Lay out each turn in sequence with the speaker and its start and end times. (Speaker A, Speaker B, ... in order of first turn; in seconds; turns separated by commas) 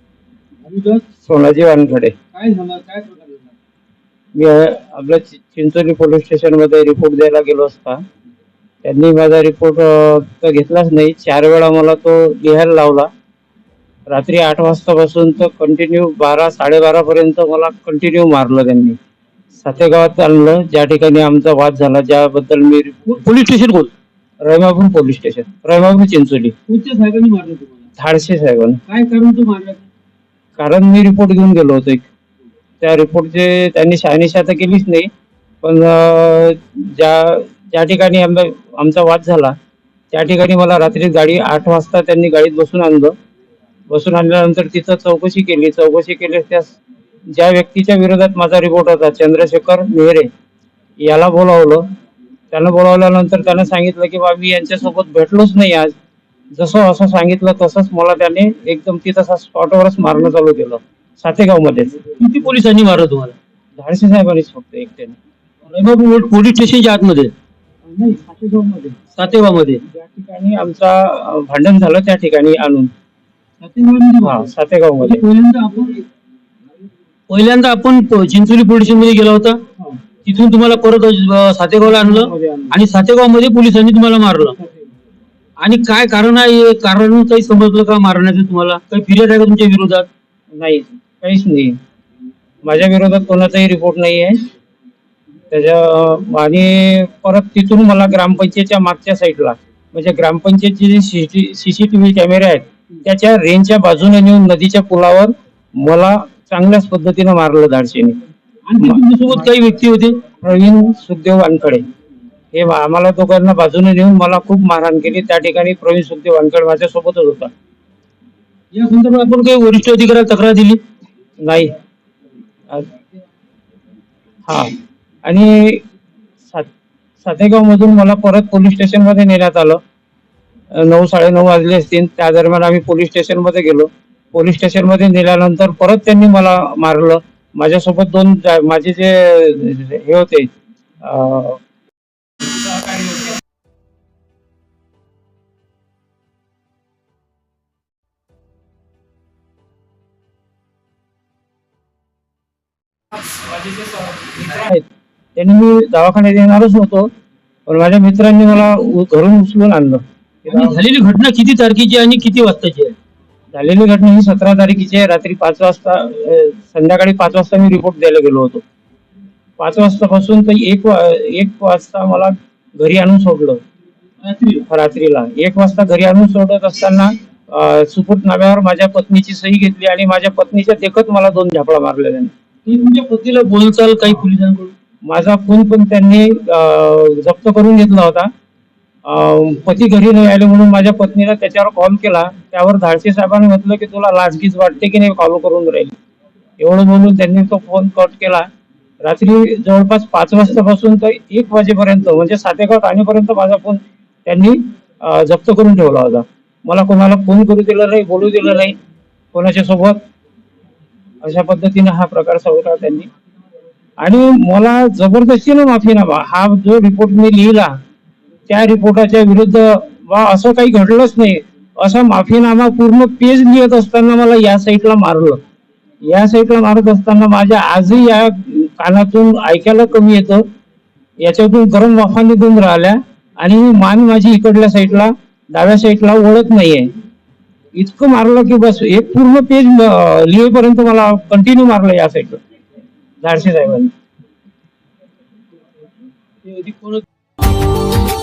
Speaker A: 0.7-1.0, Speaker B: 1.2-2.2, Speaker A: 2.3-3.4, Speaker B: 4.3-8.0, Speaker B: 8.8-13.1, Speaker B: 14.1-19.0, Speaker B: 19.6-23.2, Speaker A: 23.1-23.9, Speaker B: 24.4-26.6, Speaker A: 26.7-27.7, Speaker B: 28.0-28.8, Speaker A: 28.9-29.8, Speaker B: 30.6-32.1, Speaker B: 32.8-35.1, Speaker B: 35.6-39.5, Speaker B: 40.1-43.1, Speaker B: 43.9-46.8, Speaker B: 47.3-50.3, Speaker B: 51.0-51.8, Speaker B: 52.5-55.9, Speaker B: 56.5-62.0, Speaker A: 62.2-63.4, Speaker B: 63.8-65.2, Speaker A: 65.7-67.3, Speaker B: 67.9-69.0, Speaker A: 69.2-69.8, Speaker B: 69.9-72.9, Speaker A: 73.6-74.4, Speaker B: 74.2-75.2, Speaker A: 75.0-76.0, Speaker A: 77.3-79.6, Speaker A: 80.2-84.6, Speaker B: 81.9-82.8, Speaker A: 85.6-90.1, Speaker B: 90.5-91.8, Speaker B: 92.6-94.4, Speaker B: 95.5-108.2, Speaker A: 108.7-110.2, Speaker B: 110.4-111.8, Speaker B: 112.5-117.5, Speaker A: 118.7-120.8, Speaker B: 121.4-121.7, Speaker B: 124.5-124.7, Speaker B: 125.2-125.8, Speaker B: 127.2-129.8, Speaker B: 130.7-140.5, Speaker B: 141.0-141.6, Speaker B: 154.4-154.8, Speaker B: 155.4-157.1, Speaker B: 157.7-160.8, Speaker A: 160.5-162.9, Speaker B: 163.5-168.6, Speaker B: 169.6-173.6, Speaker A: 174.2-174.6, Speaker B: 174.7-182.3, Speaker A: 182.7-184.7, Speaker B: 185.1-188.3, Speaker B: 189.1-195.9, Speaker B: 196.6-198.5, Speaker B: 199.0-208.8, Speaker B: 209.3-210.0, Speaker B: 211.2-213.1, Speaker B: 214.0-217.8, Speaker B: 218.5-225.4, Speaker B: 226.0-230.4, Speaker B: 231.2-236.9, Speaker B: 237.7-242.4, Speaker B: 243.2-243.9, Speaker A: 246.5-247.0